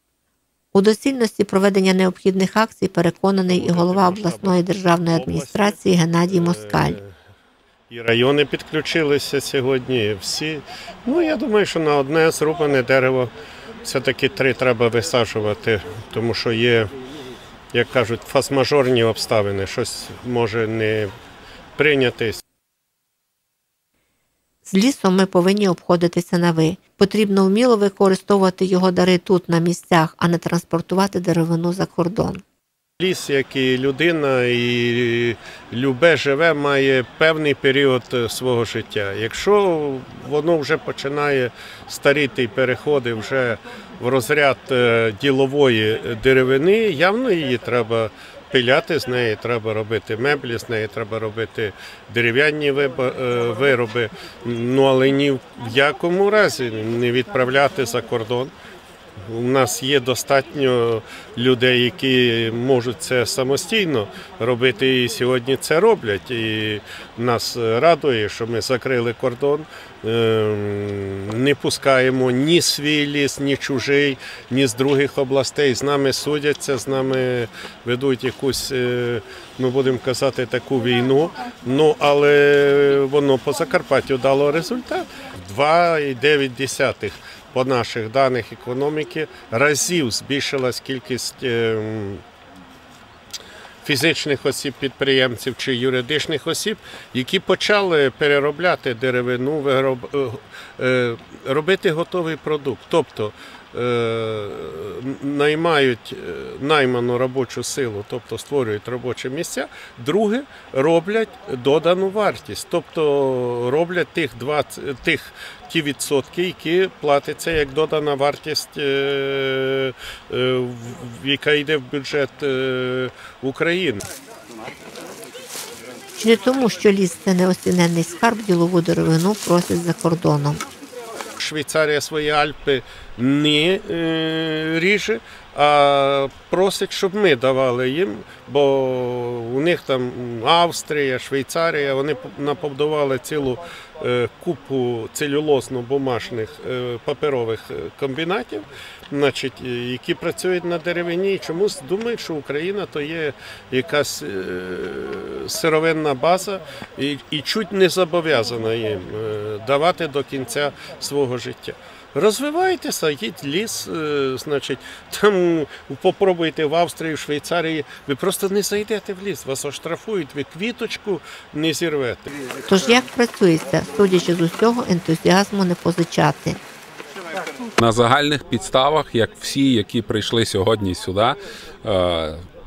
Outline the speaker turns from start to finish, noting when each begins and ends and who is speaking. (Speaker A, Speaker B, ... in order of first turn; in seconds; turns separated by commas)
Speaker A: 0.7-7.0, Speaker B: 3.5-4.5, Speaker B: 5.2-5.5, Speaker B: 7.9-13.3, Speaker B: 13.8-16.9, Speaker B: 17.7-21.1, Speaker B: 21.8-22.4, Speaker A: 24.7-32.4, Speaker B: 33.0-58.5, Speaker B: 59.3-92.2, Speaker B: 93.8-124.0, Speaker A: 126.2-130.6, Speaker B: 131.4-172.3, Speaker A: 172.7-176.6, Speaker C: 177.8-182.4